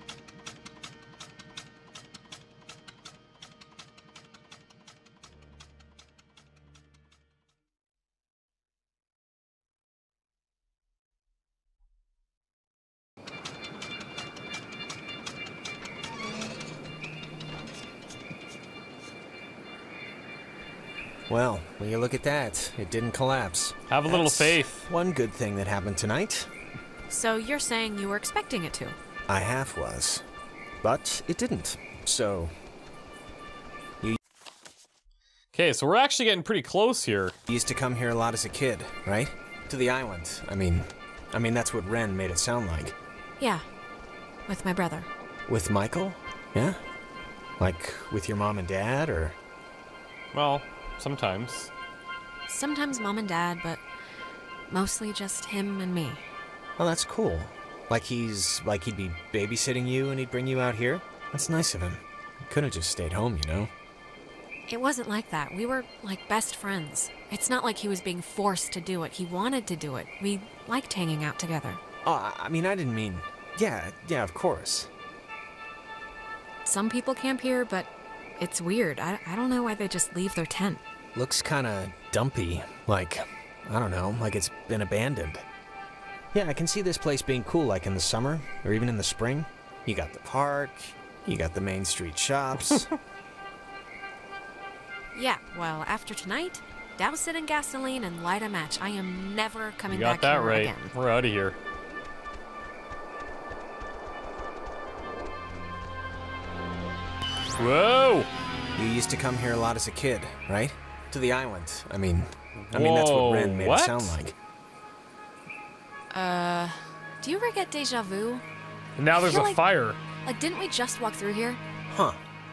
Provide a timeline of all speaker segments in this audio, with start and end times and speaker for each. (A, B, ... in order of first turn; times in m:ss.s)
0:21.3-0:26.5 A
0:23.9-0:24.9 B
0:27.1-0:29.0 C
0:29.3-0:30.2 A
0:30.8-0:32.5 A
0:35.5-0:37.3 B
0:37.5-0:43.0 A
0:43.4-0:43.6 C
0:44.5-0:45.1 C
0:45.5-0:46.8 A
0:47.6-0:49.4 A
0:50.3-0:51.7 B
0:52.5-0:53.8 C
0:54.7-0:56.3 C
0:56.8-1:03.7 A
1:04.7-1:11.8 C
1:12.0-1:14.9 A
1:16.6-1:20.8 C
1:21.2-1:25.4 A
1:26.3-1:32.9 A
1:32.6-1:32.9 B
1:35.2-1:40.9 C
1:39.9-1:41.6 B
1:47.6-1:48.3 B
1:48.8-1:54.4 A
1:52.6-1:54.2 B
1:56.1-1:58.4 C
1:59.0-2:00.0 B
1:59.2-1:59.6 C
2:00.2-2:01.6 C
2:01.9-2:02.2 A